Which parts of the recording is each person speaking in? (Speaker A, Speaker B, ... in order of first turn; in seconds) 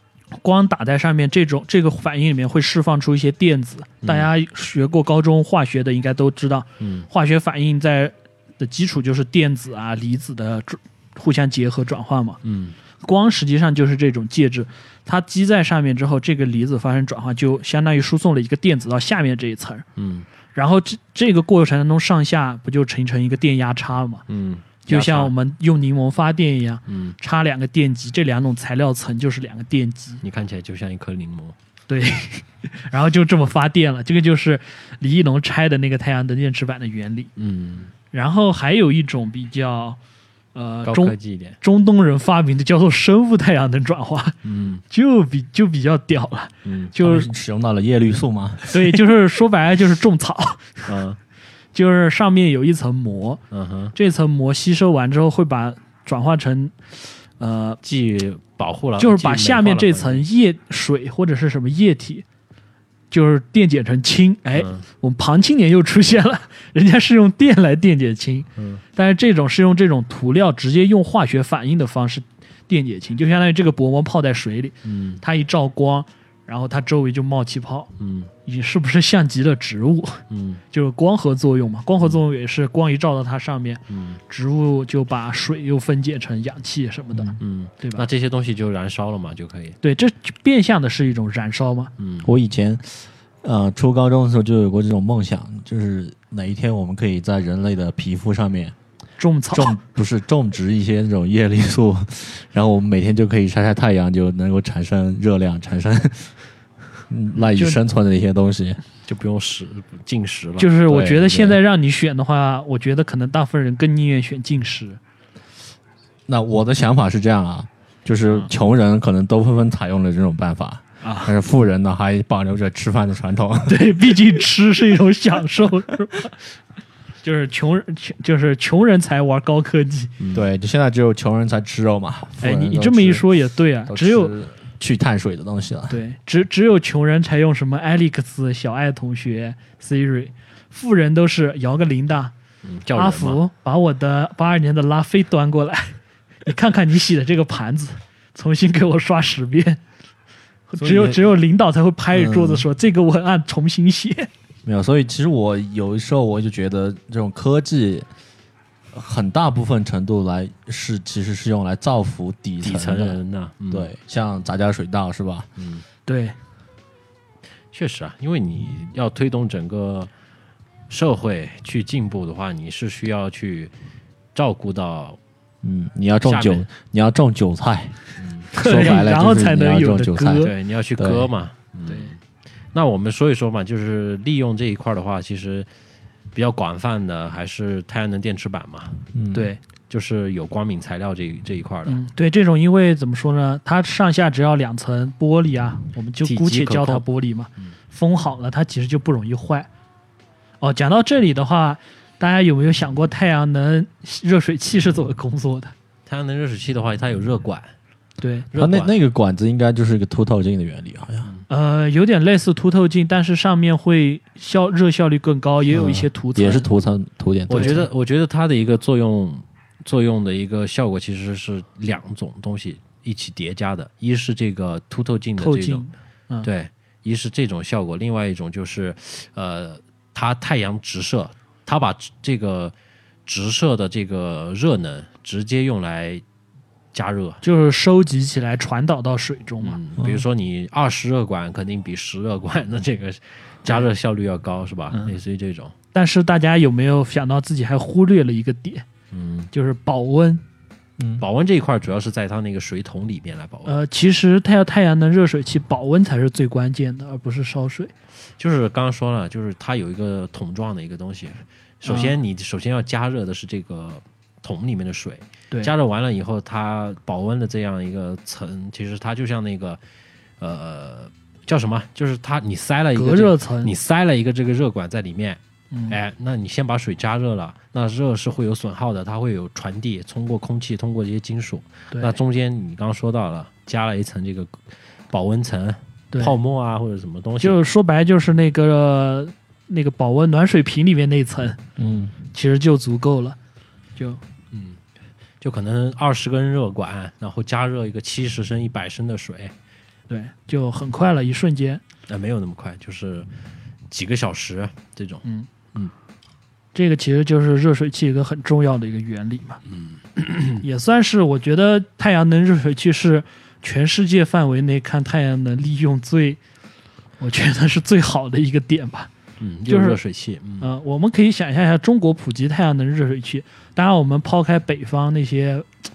Speaker A: 0.3-12.4, 13.0-19.8, 20.5-24.2, 24.9-30.2, 31.9-37.3, 38.1-40.0, 40.5-44.4, 44.9-47.3, 48.7-50.9, 51.7-53.4, 53.9-56.8, 57.4-57.8, 59.0-62.2, 63.1-77.9, 78.4-88.1, 89.8-91.9, 99.2-99.7, 107.5-107.8, 110.6-115.0, 121.0-121.3, 123.7-126.3, 127.2-130.1, 132.4-134.3, 135.9-142.3, 142.9-149.8, 150.7-154.3, 166.1-166.4, 178.5-180.5, 181.8-182.1, 189.3-189.6, 191.9-199.7, 200.6-205.7, 208.2-208.4, 211.5-216.7, 217.5-217.9, 225.4-226.5, 237.4-239.8, 244.9-245.2, 245.9-248.8, 249.5-250.4, 253.7-257.9, 261.9-262.2, 272.9-273.7, 275.7-276.0, 281.9-282.2, 287.4-291.6, 292.3-293.4, 293.9-294.2, 300.1-301.8, 306.7-309.6, 310.6-316.4, 317.2-319.1, 319.7-320.0, 320.6-325.7
Speaker B: 4.0-4.3, 6.8-7.1, 12.4-12.8, 20.0-20.3, 24.3-25.3, 26.9-27.2, 30.2-31.6, 37.4-37.9, 40.8-41.6, 44.4-44.8, 46.6-46.9, 50.9-51.2, 53.5-53.9, 57.8-60.2, 64.5-64.8, 68.6-68.8, 74.8-75.2, 78.0-78.3, 80.3-80.6, 83.9-84.2, 87.4-89.8, 92.0-92.3, 109.0-110.8, 130.2-130.4, 142.6-143.4, 162.6-163.9, 165.6-165.8, 167.7-170.1, 170.9-173.7, 174.3-175.2, 176.2-176.7, 178.2-178.9, 180.4-182.2, 182.7-185.7, 186.3-189.0, 189.9-192.0, 196.2-197.0, 206.1-207.7, 208.5-208.9, 217.5-225.8, 226.4-232.7, 233.2-236.2, 236.9-237.4, 239.6-245.7, 249.1-249.5, 251.2-253.8, 258.4-269.8, 270.4-287.6, 294.5-294.8, 295.4-299.5, 302.1-303.3, 303.9-305.9, 309.7-310.6, 319.4-320.7
Speaker C: 47.0-48.8, 92.2-98.7, 99.5-106.3, 107.1-108.8, 110.9-111.6, 116.3-124.4, 130.3-133.3, 133.8-136.0, 150.8-151.3, 152.1-152.6, 154.6-158.1, 158.9-165.5, 175.6-178.0, 178.5-181.3, 189.1-189.5, 208.5-211.3, 215.7-217.8, 251.0-251.2, 291.8-292.1